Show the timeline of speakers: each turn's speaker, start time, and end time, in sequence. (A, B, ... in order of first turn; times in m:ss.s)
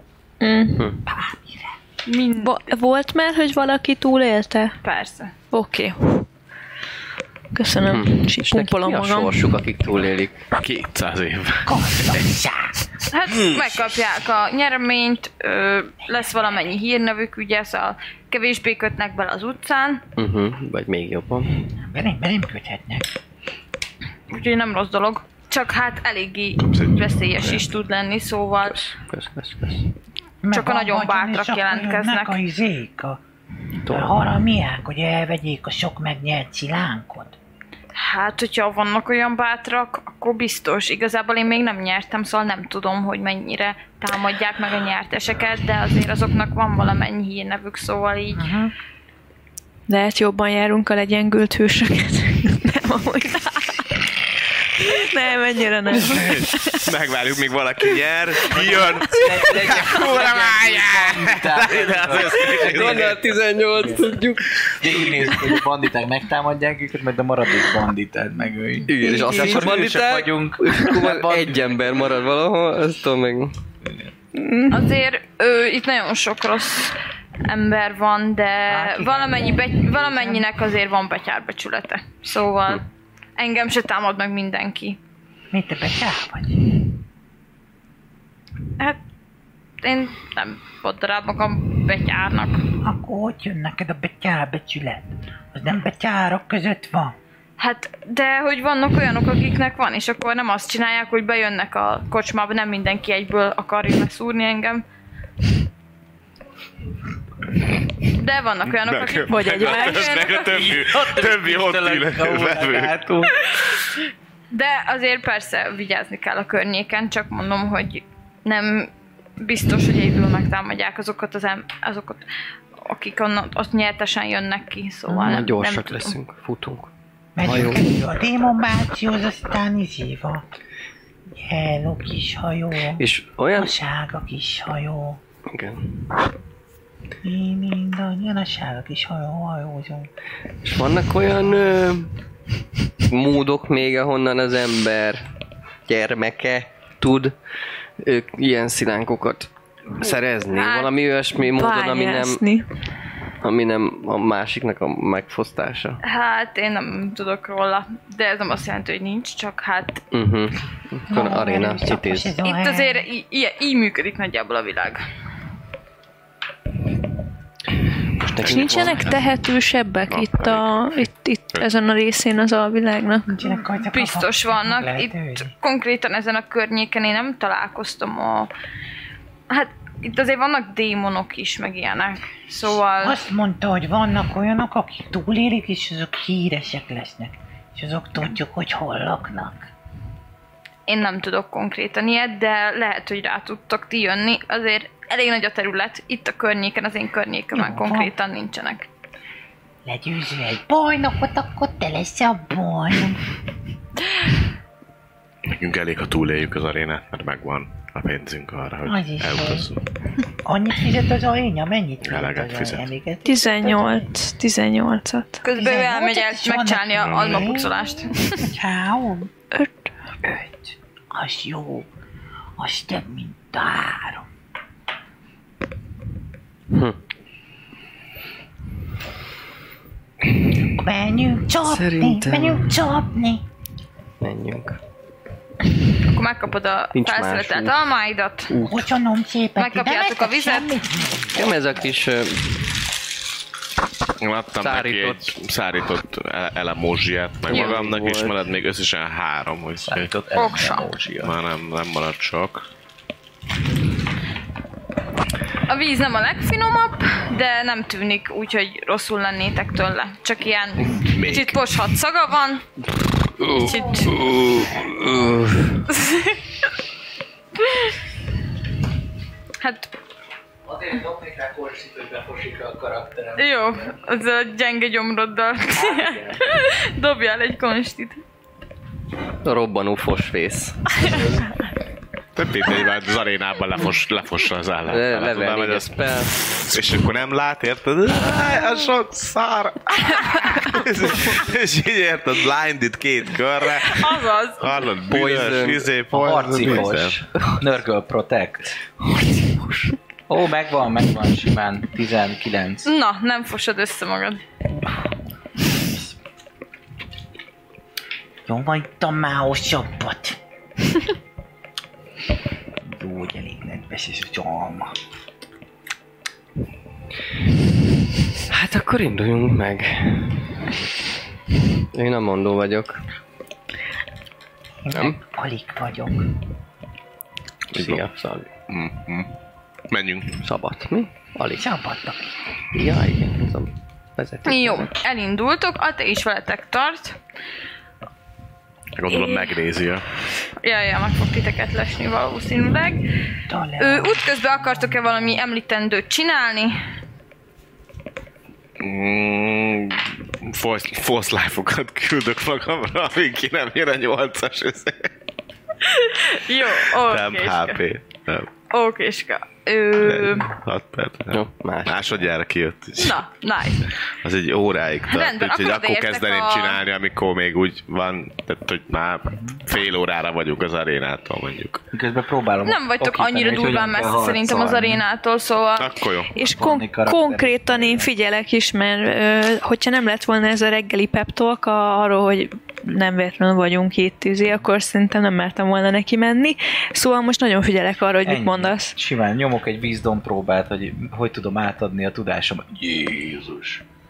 0:00.4-0:00.8 A
0:01.0-0:01.7 B
0:02.0-0:02.6 C
0:02.4-0:04.8 A
0:04.8-0:05.3 C
0:05.5-0:06.3 A
0:07.5-0:09.3 A
0:07.9-0:10.4 D
0:10.5-0:12.2 E
0:11.6-0:12.8 B
0:13.1-0:20.0 C
0:16.0-0:16.4 B
0:20.2-0:21.5 D
0:21.8-0:23.1 B
0:24.3-0:28.8 C
0:26.6-0:27.6 E
0:28.6-0:29.9 D
0:30.4-0:33.2 B
0:30.5-0:32.4 C
0:33.8-0:34.2 D
0:33.9-0:37.4 B
0:37.9-0:48.5 C
0:48.3-0:48.7 B
0:49.9-0:53.7 A
0:54.8-0:56.8 A
0:56.0-1:03.2 E
0:58.5-1:04.1 F
1:02.6-1:05.3 D
1:04.7-1:11.8 F
1:08.8-1:13.6 D
1:14.3-1:14.8 A
1:14.7-1:22.8 C
1:18.7-1:20.5 B
1:23.4-1:25.0 C
1:25.5-1:26.6 B
1:29.8-1:32.6 C
1:32.8-1:37.2 B
1:37.6-1:44.8 C
1:48.1-1:50.6 C
1:48.7-1:52.9 E
1:49.3-1:50.2 A
1:50.4-1:53.3 F
1:54.5-2:02.2 C
2:02.8-2:06.1 C
2:05.2-2:07.9 D
2:07.4-2:10.4 B
2:11.3-2:15.2 B
2:13.0-2:13.7 D
2:15.5-2:16.0 D
2:17.2-2:20.1 B
2:20.6-2:22.2 D
2:23.0-2:25.3 D
2:25.8-2:27.3 D
2:28.0-2:32.4 D
2:30.5-2:30.9 C
2:31.4-2:32.6 A
2:33.4-2:36.0 D
2:36.0-2:40.0 C
2:40.1-2:42.4 D
2:41.1-2:43.0 B
2:42.4-2:45.0 C
2:48.2-2:49.2 D
2:48.2-2:49.2 E
2:48.4-2:53.4 A
2:50.1-2:51.7 E
2:53.3-2:55.5 B
2:53.9-2:58.5 C
2:59.5-3:03.2 C
3:02.9-3:09.7 B
3:10.9-3:18.9 C
3:17.5-3:18.1 B
3:19.8-3:23.2 B
3:25.4-3:29.8 E
3:28.8-3:29.7 B
3:30.4-3:34.1 B
3:32.0-3:32.9 E
3:33.2-3:35.4 A
3:35.4-3:38.4 C
3:35.5-3:39.3 B
3:37.0-3:37.6 E
3:40.2-3:41.9 B
3:42.6-3:44.2 B
3:46.7-3:47.0 D
3:50.7-3:53.4 B
3:51.6-3:53.0 D
3:54.2-3:54.8 D
3:56.1-3:58.5 C
3:56.9-3:57.9 D
3:58.5-3:58.9 D
3:58.6-4:01.9 B
3:59.6-4:00.8 C
4:01.3-4:02.7 D
4:04.2-4:10.1 E
4:04.6-4:05.3 D
4:07.5-4:08.5 D
4:07.5-4:07.8 C
4:09.8-4:11.4 F
4:10.3-4:10.9 C
4:11.2-4:12.7 E
4:15.7-4:22.6 C
4:20.9-4:21.6 E
4:23.4-4:25.9 D
4:23.5-4:24.1 C
4:25.9-4:26.4 C
4:29.6-4:29.9 C
4:30.7-4:33.5 F
4:33.4-4:38.2 C
4:35.9-4:36.4 F
4:39.4-4:41.0 D
4:42.3-4:46.0 E
4:44.9-4:46.6 D
4:46.6-4:57.2 E
4:50.0-4:50.5 C
4:53.8-4:54.7 C
4:55.0-4:57.6 D
4:56.1-4:58.7 F
4:59.0-4:59.9 D
5:00.3-5:02.9 F
5:02.8-5:04.4 C
5:08.5-5:10.4 B
5:12.8-5:14.9 B
5:18.5-5:20.4 D
5:21.9-5:23.0 D
5:24.8-5:26.3 B
5:27.7-5:28.5 D
5:27.7-5:28.0 E
5:28.7-5:29.3 E
5:29.9-5:30.4 E
5:30.4-5:31.6 D
5:31.5-5:32.2 B
5:32.7-5:34.9 D
5:34.4-5:37.2 C
5:39.0-5:40.0 E
5:39.1-5:39.5 C
5:40.6-5:43.0 C
5:43.5-5:45.4 B
5:43.8-5:46.8 C
5:48.8-5:55.1 E
5:55.8-5:57.8 C
5:56.9-5:58.5 E
5:58.7-6:00.5 C
6:00.0-6:03.2 E
6:01.3-6:02.2 D
6:03.0-6:03.9 C
6:04.2-6:11.8 E
6:05.1-6:06.8 C
6:11.9-6:15.0 F
6:12.6-6:16.0 C
6:15.8-6:16.3 E
6:16.3-6:28.9 A
6:16.4-6:18.1 F
6:28.2-6:33.8 F